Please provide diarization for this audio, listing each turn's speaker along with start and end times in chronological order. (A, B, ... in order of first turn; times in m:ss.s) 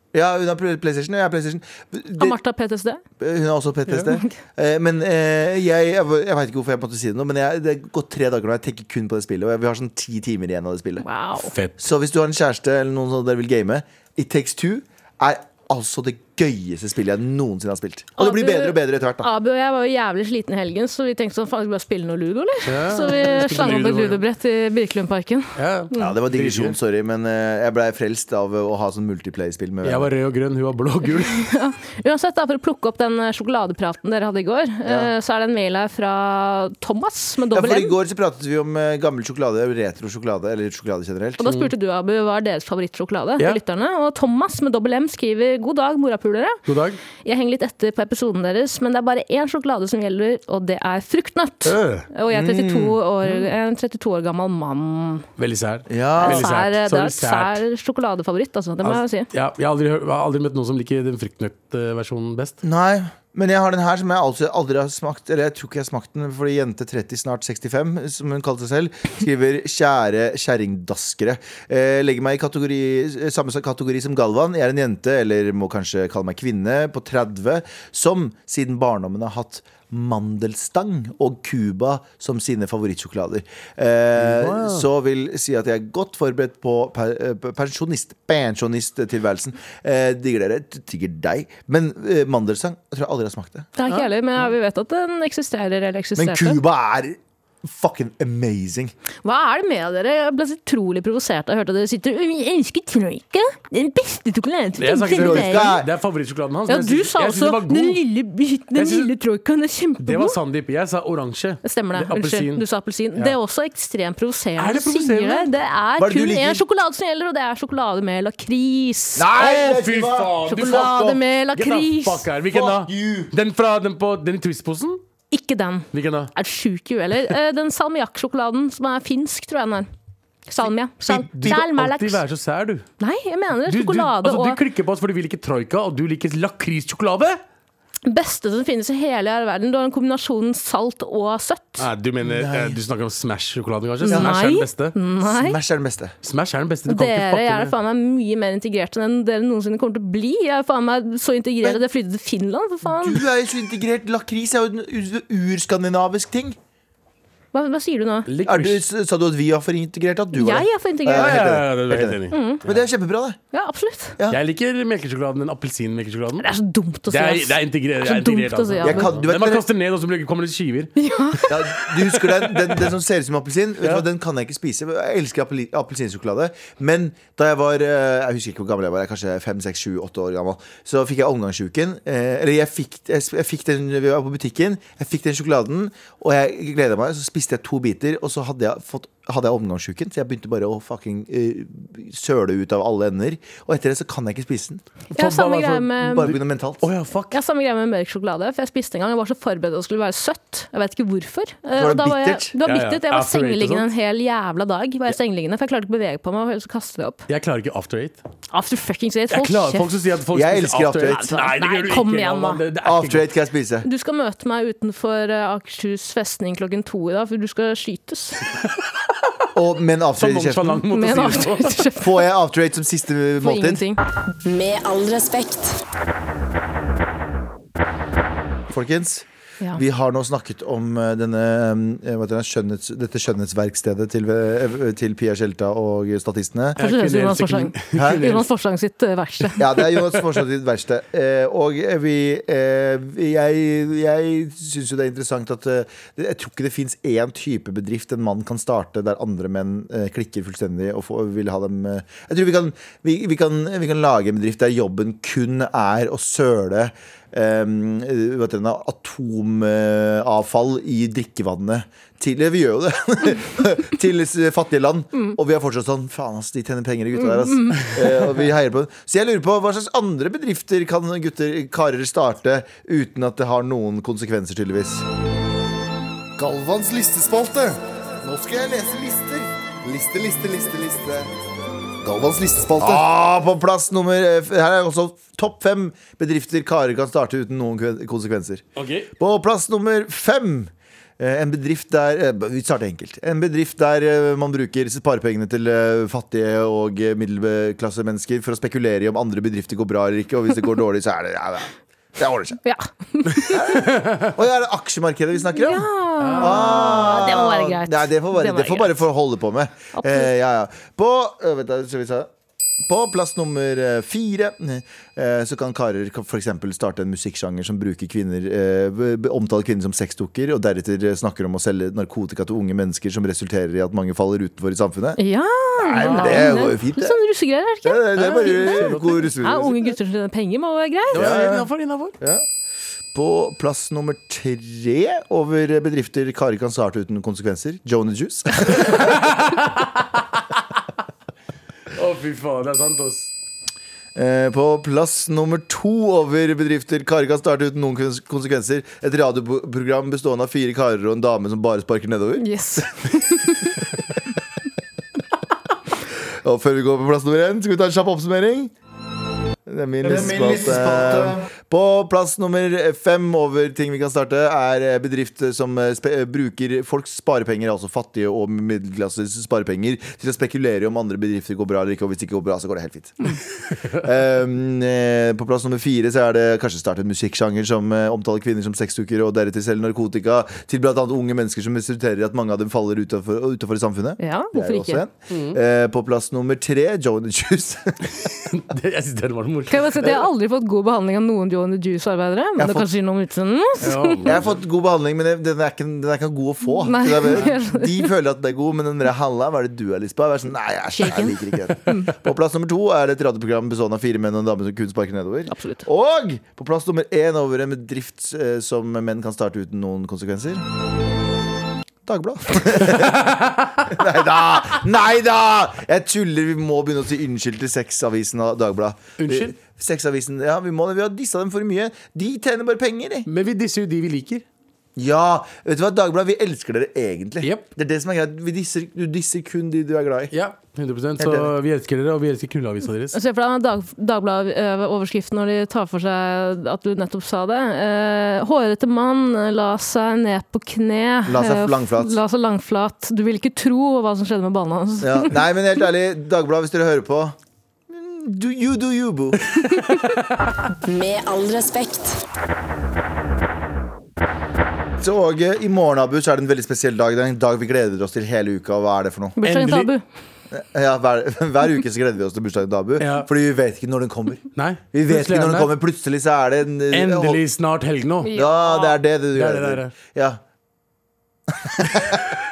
0:00.1-0:02.4 A
0:02.2-0:03.0 B
0:03.2-0:11.0 A
0:04.0-0:04.3 B
0:11.0-0:11.5 B
0:11.8-0:19.3 A
0:18.2-0:26.2 B
0:22.6-0:24.2 C
0:25.6-0:26.8 C
0:26.0-0:30.1 A
0:29.8-0:31.4 C
0:31.2-0:37.9 B
0:34.8-0:35.1 A
0:37.5-0:41.5 A
0:41.4-0:46.6 B
0:46.6-0:47.0 C
0:47.2-0:55.2 B
0:51.6-0:52.1 C
0:52.3-0:53.0 A
0:55.4-0:57.6 C
0:55.9-0:56.5 A
0:56.2-0:59.3 B
0:58.8-1:02.6 C
1:02.6-1:33.7 A
1:24.2-1:24.8 C
1:33.8-1:36.6 B
1:36.2-1:38.9 A
1:39.2-1:45.7 B
1:44.8-1:48.0 C
1:45.1-1:45.9 A
1:46.7-1:50.4 B
1:48.7-1:49.1 C
1:50.0-1:53.4 C
1:51.6-1:59.3 B
1:54.6-1:55.5 C
1:56.0-1:56.6 A
1:59.2-2:01.2 A
1:59.3-2:05.0 C
2:00.4-2:02.3 B
2:02.5-2:03.3 A
2:05.3-2:09.9 B
2:05.9-2:06.3 C
2:10.5-2:12.2 B
2:11.0-2:11.7 A
2:11.4-2:12.9 C
2:13.0-2:14.6 B
2:13.7-2:17.4 C
2:18.0-2:21.9 B
2:21.8-2:24.9 C
2:22.2-2:22.8 A
2:24.0-2:25.6 B
2:24.1-2:24.4 A
2:25.2-2:26.1 A
2:26.2-2:27.7 C
2:26.9-2:33.2 B
2:32.8-2:36.6 A
2:37.5-2:38.3 B
2:38.3-2:38.8 C
2:38.4-2:43.4 A
2:40.3-2:41.4 B
2:41.1-2:42.7 C
2:42.3-2:42.6 B
2:43.5-2:44.2 B
2:44.3-2:46.4 C
2:46.4-2:49.1 B
2:47.1-2:50.9 C
2:48.8-2:49.6 A
2:51.0-2:51.6 B
2:51.5-3:14.8 A
2:52.6-2:52.9 C
3:15.1-3:16.3 B
3:15.1-3:17.4 C
3:16.0-3:16.9 A
3:17.3-3:27.2 B
3:21.7-3:22.5 A
3:22.6-3:23.9 C
3:27.3-3:28.2 C
3:28.5-3:29.9 B
3:29.3-3:33.3 C
3:30.3-3:31.4 A
3:31.1-3:32.6 B
3:32.8-3:33.9 A
3:33.8-3:38.4 B
3:39.5-3:40.8 A
3:40.2-3:41.8 C
3:40.9-3:42.2 B
3:42.0-3:43.8 A
3:43.4-3:44.0 B
3:44.4-3:45.8 D
3:48.7-3:56.8 A
3:56.8-3:58.5 C
3:56.8-3:59.7 B
3:57.9-3:58.3 A
3:59.6-4:35.0 A
4:27.2-4:27.9 B
4:36.4-4:37.8 E
4:38.2-4:41.2 A
4:42.0-4:43.0 E
4:42.8-4:48.6 A
4:48.8-4:49.1 C
4:49.2-5:02.6 A
5:02.6-5:03.9 B
5:03.4-5:12.3 A
5:05.5-5:09.0 B
5:06.2-5:07.1 C
5:09.9-5:10.3 B
5:12.8-5:25.2 A
5:25.2-5:31.3 B
5:25.8-5:27.2 A
5:26.0-5:26.7 C
5:27.8-5:29.8 A
5:28.2-5:29.3 C
5:31.1-5:32.1 C
5:31.1-5:31.7 A
5:32.2-5:32.4 A
5:33.1-5:39.3 A
5:38.8-5:40.0 C
5:41.9-5:43.3 C
5:44.1-5:53.1 A
5:52.4-5:53.8 B
5:56.2-5:58.7 A
5:59.6-6:13.4 A
6:13.9-6:28.3 A
6:24.2-6:25.0 B
6:25.3-6:25.6 C
6:28.2-6:30.1 C
6:29.7-6:34.3 B
6:32.6-6:32.9 A
6:33.8-6:34.6 C
6:34.2-6:50.6 A
6:36.8-6:38.1 B
6:40.9-6:42.1 B
6:45.5-6:45.8 B
6:52.0-7:03.3 A
6:52.8-6:53.8 C
6:59.2-6:59.5 C
7:03.3-7:04.4 C
7:05.0-7:10.3 A
7:10.3-7:13.2 C
7:11.2-7:11.5 A
7:13.1-7:25.4 B
7:21.3-7:22.2 A
7:25.0-7:27.4 A
7:27.9-7:29.5 A
7:30.8-7:32.2 D
7:35.0-7:39.4 A
7:39.4-7:40.0 B
7:39.4-7:39.9 C
7:40.5-7:47.4 A
7:43.0-7:43.3 C
7:44.6-7:45.7 C
7:46.9-7:48.3 C
7:48.2-7:49.0 B
7:48.3-7:50.4 A
7:49.3-7:49.9 C
7:51.5-7:52.2 A